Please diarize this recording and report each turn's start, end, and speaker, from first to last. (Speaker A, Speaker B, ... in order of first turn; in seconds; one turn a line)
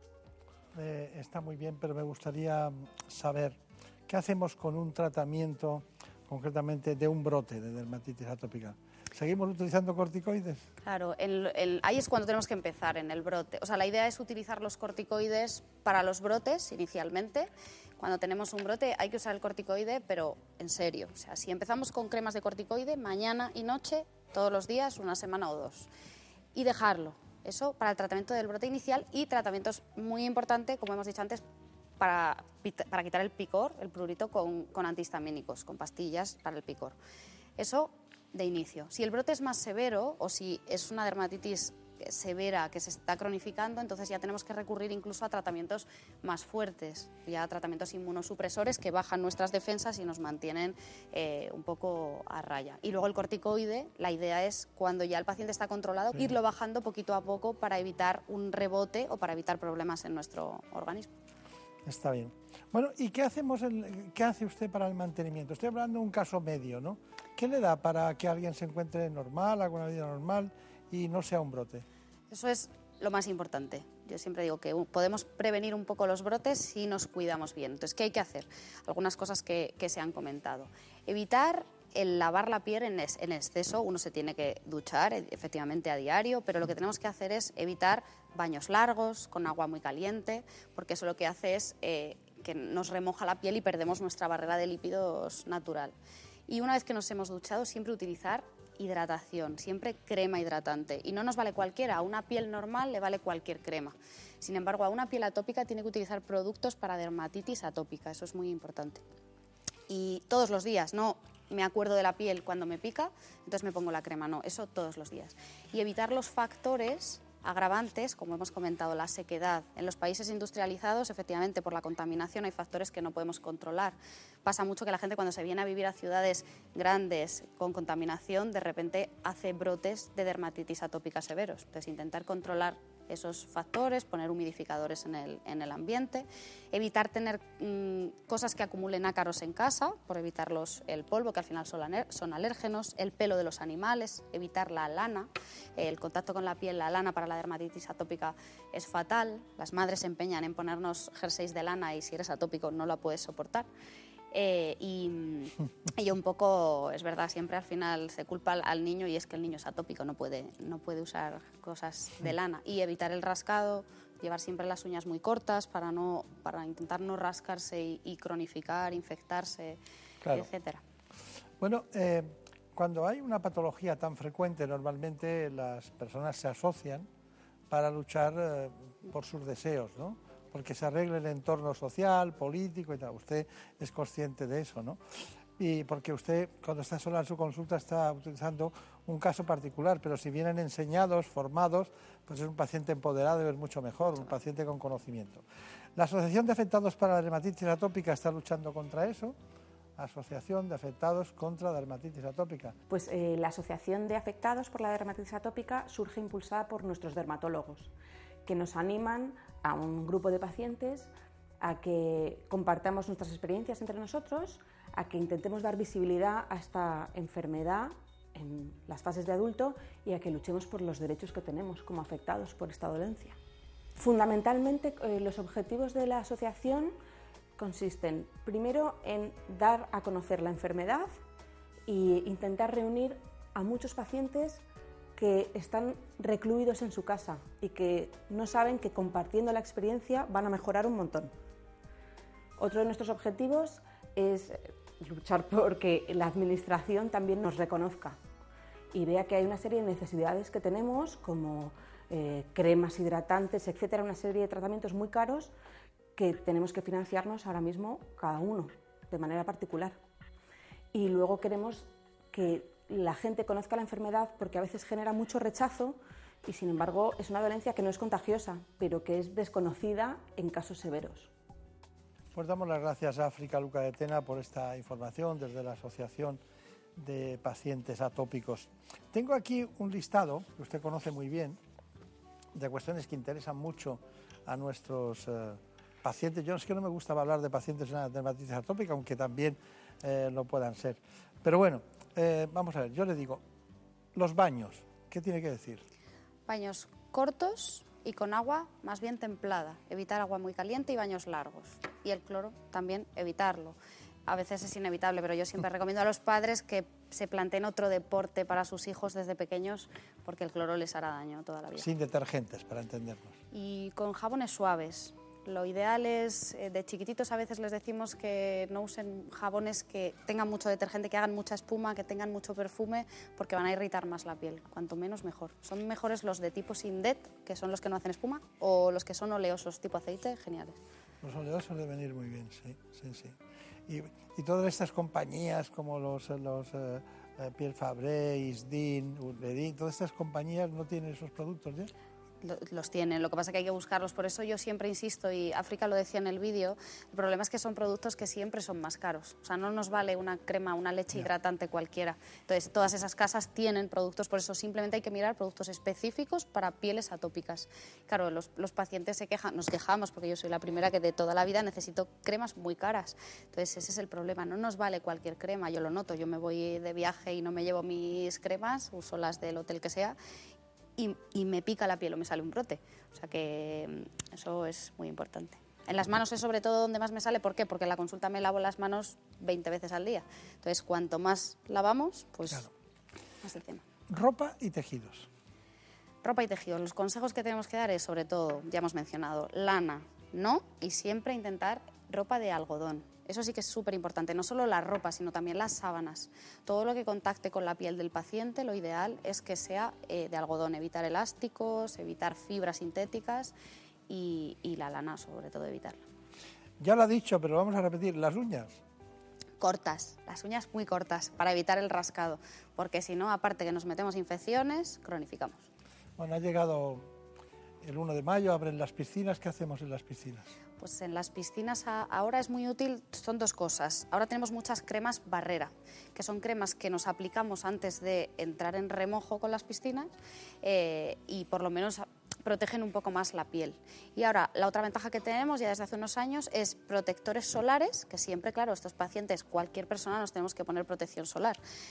Speaker A: 0.7-10.6
Speaker B: 10.8-25.9
Speaker B: 26.5-31.4
Speaker B: 32.0-37.0
Speaker B: 37.6-61.1
Speaker A: 61.9-71.8
Speaker B: 72.3-95.9
Speaker B: 96.5-109.0
Speaker B: 109.9-153.7
Speaker B: 154.3-170.8
Speaker A: 170.2-170.5
Speaker A: 171.6-177.1
Speaker A: 177.7-185.0
Speaker A: 185.6-195.4
Speaker A: 195.9-199.3
Speaker A: 200.0-202.8
Speaker C: 202.9-207.9
Speaker C: 208.4-223.4
Speaker C: 223.9-226.9
Speaker C: 227.6-231.1
Speaker C: 231.9-234.6
Speaker C: 235.2-241.3
Speaker C: 242.6-248.2
Speaker C: 248.9-255.5
Speaker C: 256.1-260.0
Speaker C: 260.9-271.3
Speaker A: 272.3-276.4
Speaker A: 276.9-281.6
Speaker A: 282.5-293.4
Speaker A: 294.1-295.8
Speaker B: 296.5-311.9
Speaker A: 311.7-313.4
Speaker B: 313.5-330.8
Speaker A: 331.2-333.4
Speaker A: 333.9-341.9
Speaker B: 342.4-370.2
Speaker B: 371.0-382.7
Speaker B: 383.4-383.8
Speaker A: 384.1-385.3
Speaker B: 386.2-403.5
Speaker B: 404.1-406.0
Speaker A: 406.8-408.8
Speaker B: 409.6-415.7
Speaker A: 416.2-417.1
Speaker A: 417.8-420.6
Speaker B: 420.8-441.6